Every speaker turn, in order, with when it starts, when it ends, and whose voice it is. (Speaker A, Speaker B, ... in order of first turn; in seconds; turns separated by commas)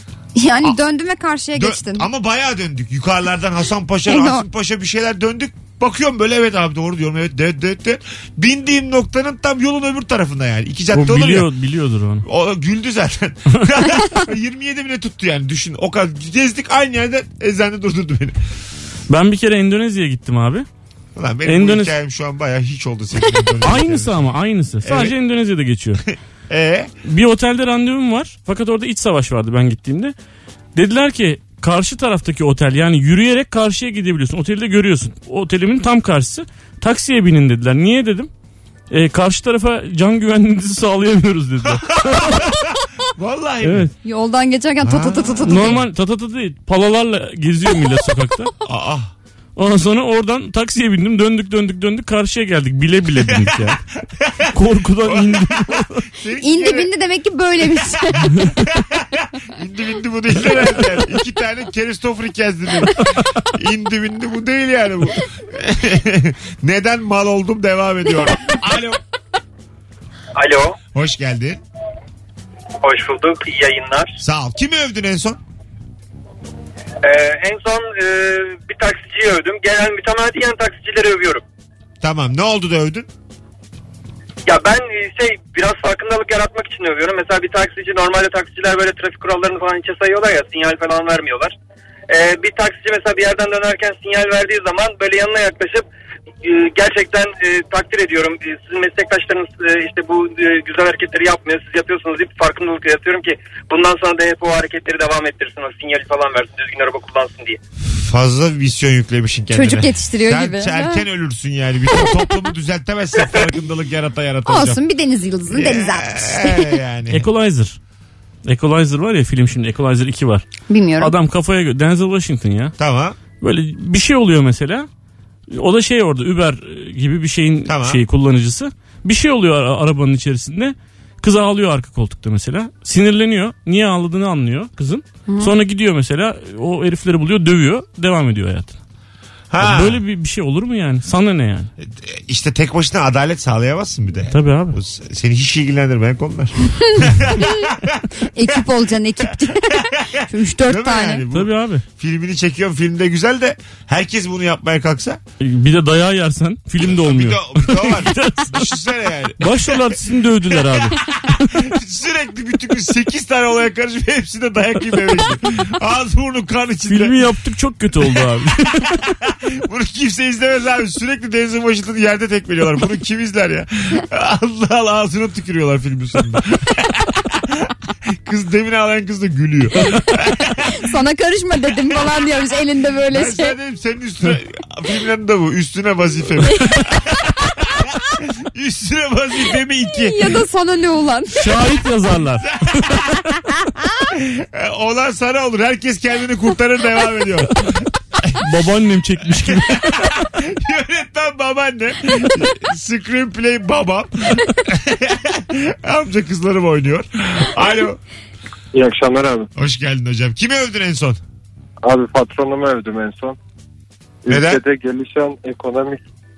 Speaker A: 0.4-2.1, Speaker B: 1.6-11.5, Speaker A: 4.1-4.4, Speaker C: 10.9-12.2, Speaker B: 12.2-18.4, Speaker C: 19.1-20.7, Speaker B: 21.2-24.3, Speaker C: 21.4-21.9, Speaker C: 23.6-26.0, Speaker B: 24.8-25.2, Speaker B: 26.5-26.9, Speaker C: 27.1-30.1, Speaker C: 30.8-38.3, Speaker C: 38.9-42.6, Speaker B: 41.6-43.9, Speaker C: 43.6-43.9, Speaker A: 44.0-45.8, Speaker B: 44.8-45.8, Speaker C: 45.4-48.5, Speaker B: 48.6-49.1, Speaker C: 49.6-53.8, Speaker B: 53.4-54.5, Speaker C: 54.5-56.1, Speaker B: 55.0-56.9, Speaker A: 56.4-58.6, Speaker B: 58.3-69.0, Speaker D: 70.3-70.8, Speaker B: 71.0-71.6, Speaker D: 72.8-74.1, Speaker B: 74.2-75.4, Speaker D: 77.0-81.4, Speaker B: 82.0-83.1, Speaker D: 84.5-91.5, Speaker D: 92.1-95.9, Speaker D: 96.4-107.6, Speaker B: 107.8-114.8, Speaker A: 109.5-111.0, Speaker A: 114.5-116.8, Speaker B: 115.5-117.3, Speaker C: 117.1-117.8, Speaker C: 118.5-120.4, Speaker A: 120.7-121.2, Speaker C: 121.0-122.7, Speaker B: 122.8-123.2, Speaker C: 123.4-124.9, Speaker C: 125.5-138.8, Speaker B: 127.7-128.0, Speaker B: 139.5-140.0, Speaker C: 139.6-141.7, Speaker B: 141.8-148.1, Speaker C: 144.3-144.8, Speaker A: 148.3-151.2, Speaker B: 150.1-155.2, Speaker C: 151.3-151.8, Speaker C: 155.4-158.7, Speaker B: 156.8-159.9, Speaker C: 159.4-161.6, Speaker B: 160.6-167.2, Speaker C: 166.9-169.0, Speaker B: 169.2-177.6, Speaker B: 178.2-180.7, Speaker A: 180.7-183.6, Speaker B: 183.1-190.4, Speaker A: 189.9-191.6, Speaker C: 191.4-193.1, Speaker B: 192.7-193.1, Speaker B: 194.0-198.5, Speaker C: 198.4-200.1, Speaker B: 199.4-208.0, Speaker E: 208.7-209.5, Speaker B: 209.6-211.2, Speaker E: 211.8-213.4, Speaker E: 214.2-216.0, Speaker B: 214.3-214.6